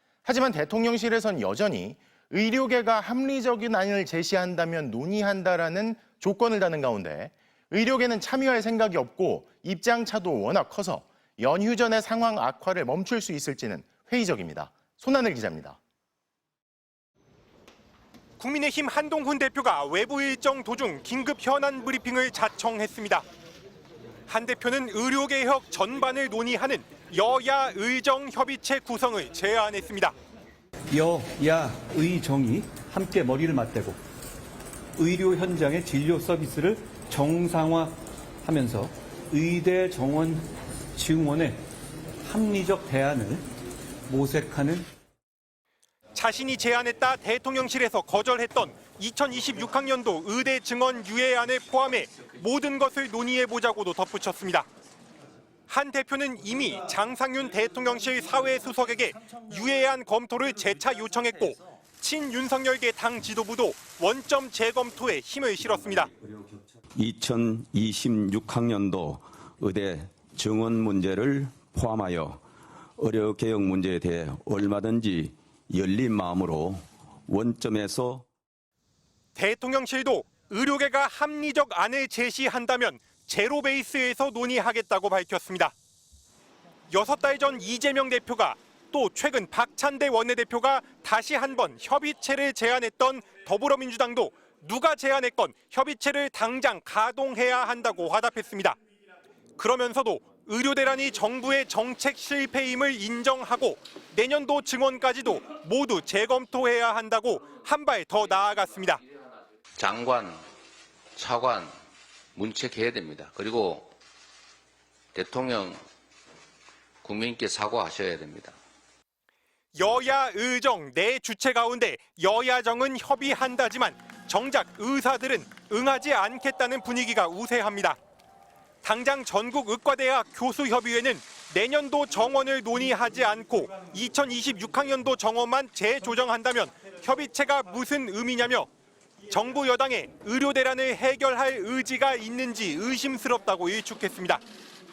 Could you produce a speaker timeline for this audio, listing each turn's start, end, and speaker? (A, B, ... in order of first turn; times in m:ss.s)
0:00.2-0:15.8 A
0:18.4-0:23.2 B
0:24.3-0:30.2 B
0:30.9-0:34.0 C
0:35.0-0:41.6 C
0:42.2-0:43.4 C
0:44.1-0:44.9 C
0:46.2-0:54.7 B
0:55.7-1:06.1 B
1:07.0-1:12.4 D
1:13.0-1:18.2 D
1:19.4-1:25.7 B
1:26.9-1:38.8 B
1:39.6-1:49.0 B
1:49.8-1:50.4 E
1:51.2-1:51.7 E
1:52.4-1:53.9 E
1:55.2-1:55.8 E
1:57.0-1:58.6 E
1:59.8-2:08.0 B
2:08.8-2:18.7 B
2:19.3-2:24.4 B